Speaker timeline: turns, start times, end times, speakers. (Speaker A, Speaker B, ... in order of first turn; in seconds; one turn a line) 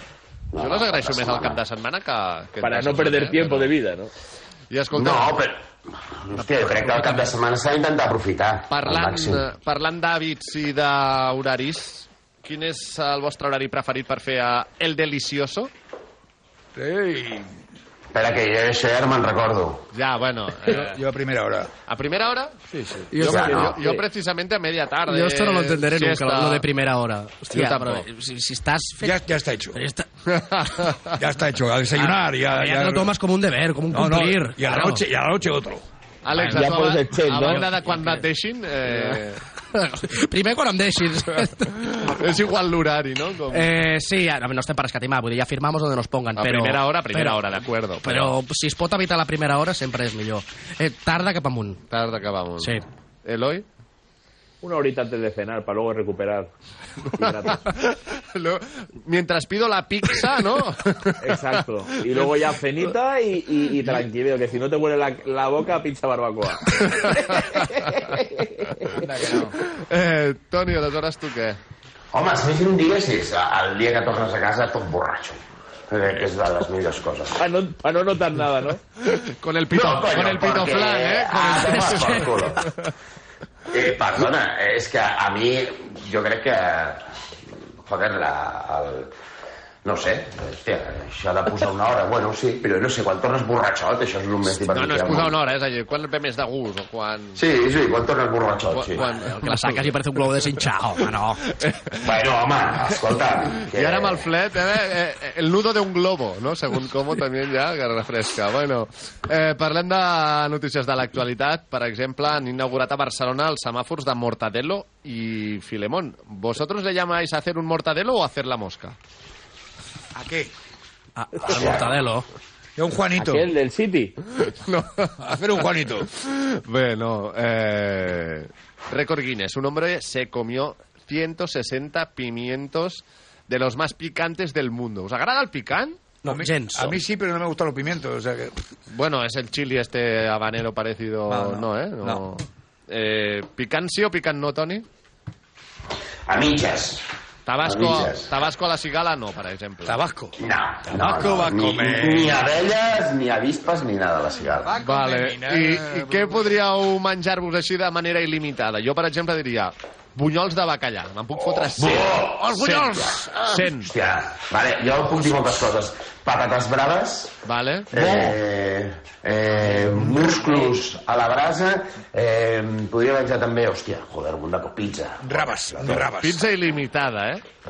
Speaker A: 0.5-1.6
Speaker B: 0.6-3.7
Speaker C: 2.6-4.1
Speaker B: 4.7-5.4
Speaker A: 4.9-9.4
Speaker B: 6.3-7.3
Speaker B: 8.7-15.7
Speaker D: 16.8-17.5
Speaker A: 18.1-19.8
Speaker B: 19.9-21.0
Speaker D: 20.7-21.7
Speaker B: 21.9-26.6
Speaker E: 23.1-23.7
Speaker A: 23.2-23.8
Speaker C: 23.4-24.0
Speaker E: 25.1-29.2
Speaker B: 27.5-28.1
Speaker D: 29.0-29.8
Speaker E: 29.7-30.1
Speaker B: 30.3-31.1
Speaker D: 31.2-33.1
Speaker E: 32.0-35.0
Speaker D: 33.9-35.8
Speaker B: 36.2-39.4
Speaker C: 36.4-37.7
Speaker E: 37.4-38.2
Speaker E: 38.9-42.4
Speaker B: 41.4-43.7
Speaker E: 43.5-47.5
Speaker B: 46.4-48.3
Speaker E: 48.0-51.8
Speaker B: 51.9-53.6
Speaker E: 52.6-52.9
Speaker C: 54.6-56.5
Speaker C: 57.1-57.7
Speaker B: 57.2-62.3
Speaker C: 61.2-69.0
Speaker B: 66.7-68.0
Speaker D: 69.0-69.5
Speaker B: 69.4-71.6
Speaker A: 72.1-77.4
Speaker C: 77.4-78.8
Speaker B: 79.0-82.7
Speaker A: 79.7-82.6
Speaker E: 81.5-82.2
Speaker A: 83.7-87.0
Speaker A: 87.8-89.1
Speaker A: 89.8-95.3
Speaker B: 94.4-97.4
Speaker A: 97.4-99.0
Speaker B: 98.7-102.1
Speaker E: 99.0-101.4
Speaker A: 102.0-104.3
Speaker B: 103.7-119.0
Speaker D: 120.1-120.5
Speaker E: 121.2-122.3
Speaker A: 121.5-121.9
Speaker D: 122.8-123.5
Speaker C: 123.2-124.2
Speaker B: 124.5-136.0
Speaker D: 125.2-126.1
Speaker E: 136.2-137.0
Speaker D: 136.2-138.6
Speaker B: 138.9-144.8
Speaker D: 141.3-142.2
Speaker A: 146.3-147.0
Speaker B: 147.5-150.0
Speaker A: 147.6-148.3
Speaker D: 149.8-150.3
Speaker A: 150.4-154.7
Speaker D: 150.9-152.4
Speaker D: 154.6-156.5
Speaker B: 154.8-163.9
Speaker A: 161.6-167.3
Speaker B: 167.4-168.4
Speaker A: 167.9-176.1
Speaker B: 170.0-170.7
Speaker D: 175.2-176.5
Speaker B: 176.2-177.4